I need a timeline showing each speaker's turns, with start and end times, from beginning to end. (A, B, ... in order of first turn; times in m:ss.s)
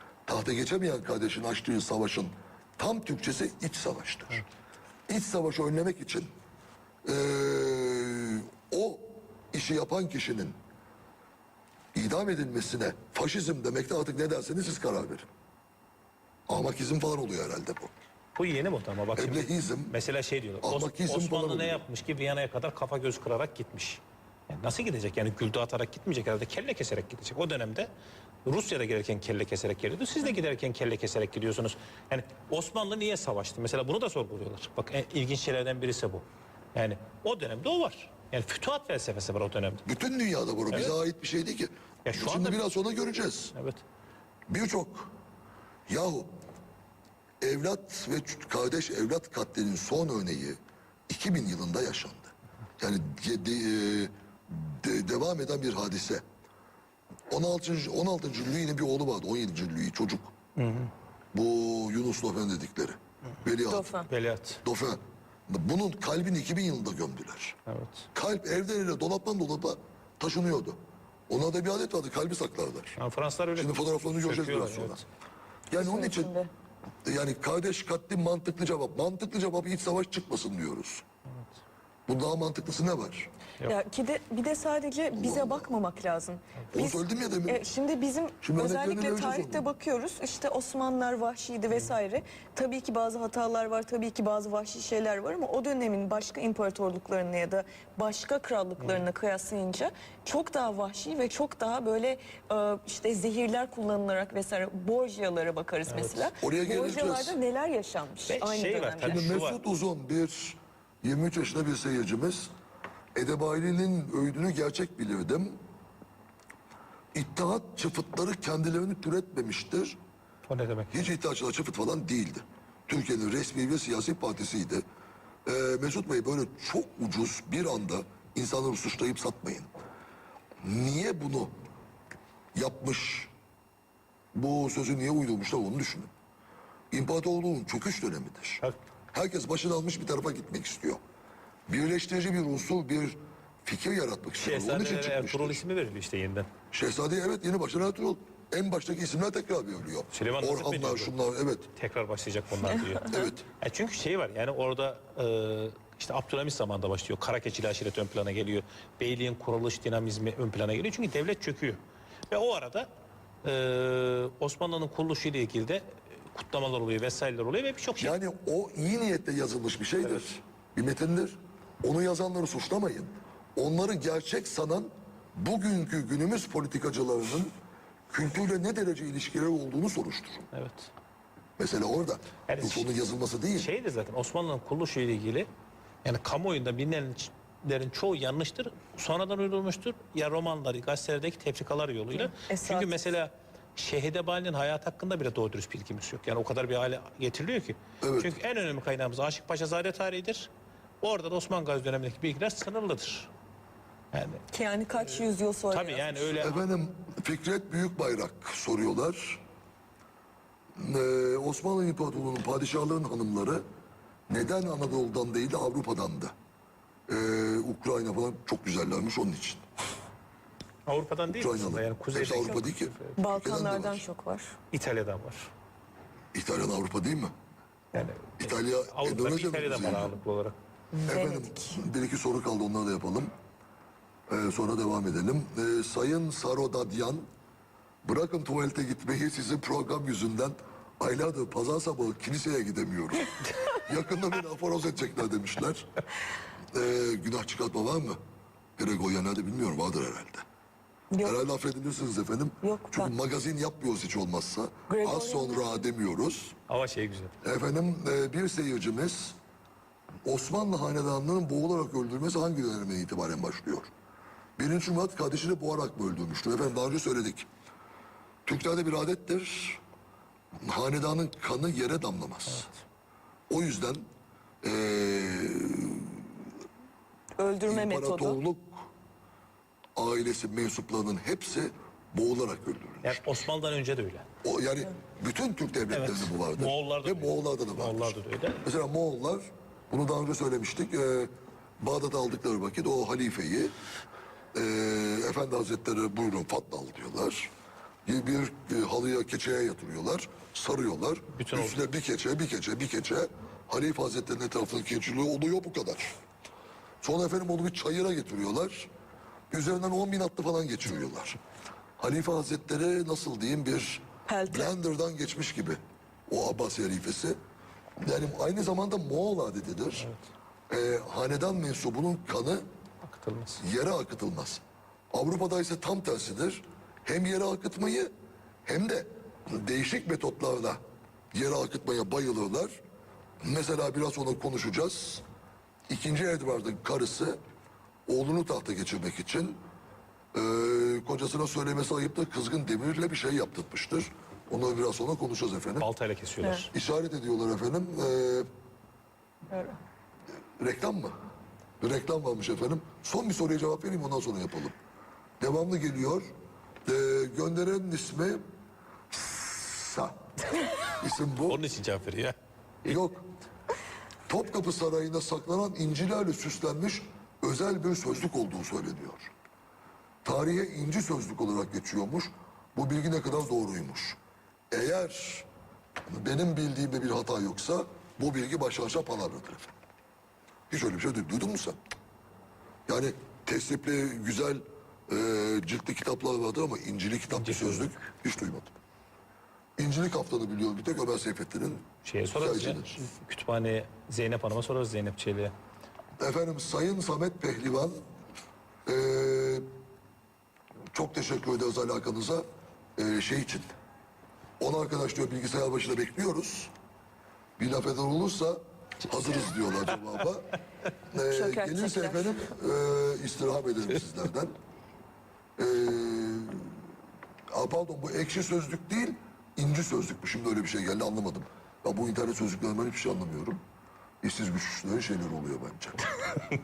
0:00.3-0:04.4 A
0:05.1-0:06.3 A
0:07.0-0:10.6 A
0:12.0-0:15.3 A
0:16.5-0:17.9 A
0:18.4-0:27.9 B
0:19.1-0:19.9 A
0:20.6-0:21.8 A
0:28.4-0:39.8 B
0:39.8-0:43.5 A
0:42.0-0:42.6 B
0:43.6-0:43.8 B
0:44.5-0:45.1 A
0:45.9-0:46.3 A
0:47.4-0:50.6 A
0:51.1-0:56.2 A
0:57.3-1:00.3 A
1:00.6-1:00.9 B
1:01.3-1:03.9 A
1:03.7-1:04.1 C
1:04.1-1:04.6 B
1:04.6-1:07.6 A
1:07.7-1:08.1 B
1:08.1-1:10.8 A
1:11.3-1:13.0 A
1:13.0-1:15.0 B
1:13.6-1:15.0 A
1:15.7-1:16.3 A
1:15.8-1:16.5 C
1:17.1-1:21.0 A
1:22.1-1:23.3 A
1:23.6-1:49.4 C
1:25.1-1:25.7 A
1:26.7-1:27.6 A
1:28.4-1:29.7 A
1:38.8-1:39.0 B
1:45.9-1:46.3 B
1:46.4-1:47.4 A
1:48.3-1:49.6 B
1:49.0-1:52.5 A
1:53.2-1:55.6 A
1:57.1-2:00.0 A
2:00.5-2:01.1 B
2:00.9-2:04.8 A
2:05.5-2:09.7 A
2:10.6-2:11.5 A
2:12.6-2:13.3 A
2:14.3-2:16.1 A
2:16.9-2:18.6 A
2:19.1-2:21.0 A
2:21.7-2:25.6 A
2:24.4-2:26.5 B
2:26.7-2:31.7 A
2:30.1-2:31.1 B
2:31.8-2:42.9 B
2:33.0-2:33.5 A
2:43.4-2:48.2 B
2:48.0-2:57.5 A
2:50.0-2:50.3 B
2:58.1-3:00.5 A
3:00.5-3:00.9 B
3:01.6-3:03.7 A
3:02.5-3:02.9 B
3:03.6-3:05.5 B
3:06.0-3:20.5 B
3:12.3-3:12.9 C
3:18.0-3:18.3 A
3:21.0-3:23.3 B
3:24.1-3:24.4 B
3:24.5-3:26.4 C
3:25.7-3:26.7 B
3:26.4-3:29.4 A
3:30.8-3:33.6 A
3:34.3-3:36.3 A
3:37.1-3:39.6 A
3:40.9-3:43.2 B
3:41.3-3:44.0 A
3:43.2-3:44.6 C
3:44.7-3:45.5 B
3:46.3-3:47.3 A
3:47.9-3:50.6 B
3:48.4-3:50.1 A
3:50.9-3:51.8 C
3:51.1-3:53.3 A
3:54.3-3:57.2 A
3:58.0-4:05.9 A
4:06.7-4:08.2 A
4:08.8-4:10.4 A
4:11.2-4:16.6 A
4:12.6-4:13.1 C
4:14.9-4:15.8 C
4:16.7-4:17.3 B
4:17.4-4:19.4 A
4:20.2-4:23.9 A
4:24.6-4:27.5 A
4:28.4-4:29.8 A
4:30.6-4:32.7 A
4:33.5-4:34.0 A
4:34.6-4:36.3 A
4:37.4-4:38.4 C
4:37.7-4:38.9 A
4:40.0-4:43.2 A
4:43.0-4:44.2 B
4:44.4-4:53.7 A
4:45.9-4:48.6 B
4:54.5-4:57.5 A
4:58.0-5:06.2 A
5:01.3-5:01.8 B
5:07.0-5:08.9 A
5:09.5-5:11.4 A
5:12.0-5:17.4 A
5:14.3-5:14.7 C
5:18.0-5:20.1 A
5:20.7-5:22.6 A
5:23.0-5:23.6 B
5:23.6-5:28.1 A
5:28.6-5:30.8 A
5:31.3-5:32.8 A
5:33.4-5:35.2 A
5:35.9-5:37.4 A
5:38.1-5:39.6 A
5:40.3-5:45.9 A
5:45.8-5:46.7 B
5:46.4-5:46.7 C
5:46.7-5:48.5 A
5:49.5-5:49.8 C
5:50.6-5:51.1 A
5:51.8-5:54.8 A
5:55.4-5:56.2 A
5:56.8-5:58.4 A
5:59.1-6:00.2 A
6:01.0-6:01.6 A
6:01.5-6:02.9 B
6:02.8-6:03.2 A
6:04.3-6:09.3 A
6:10.2-6:14.2 A
6:14.7-6:15.5 A
6:16.1-6:19.7 A
6:20.7-6:21.8 A
6:22.9-6:28.8 A
6:27.3-6:27.9 B
6:29.8-6:31.8 A
6:32.0-6:35.5 B
6:32.3-6:33.0 A
6:36.2-6:37.9 A
6:38.8-6:39.6 A
6:40.9-6:42.4 A
6:43.0-6:43.7 A
6:44.6-6:46.7 A
6:47.6-6:50.6 A
6:51.1-6:54.5 A
6:51.3-6:52.4 C
6:55.6-6:56.7 A
6:57.5-7:03.6 A
7:04.2-7:06.1 A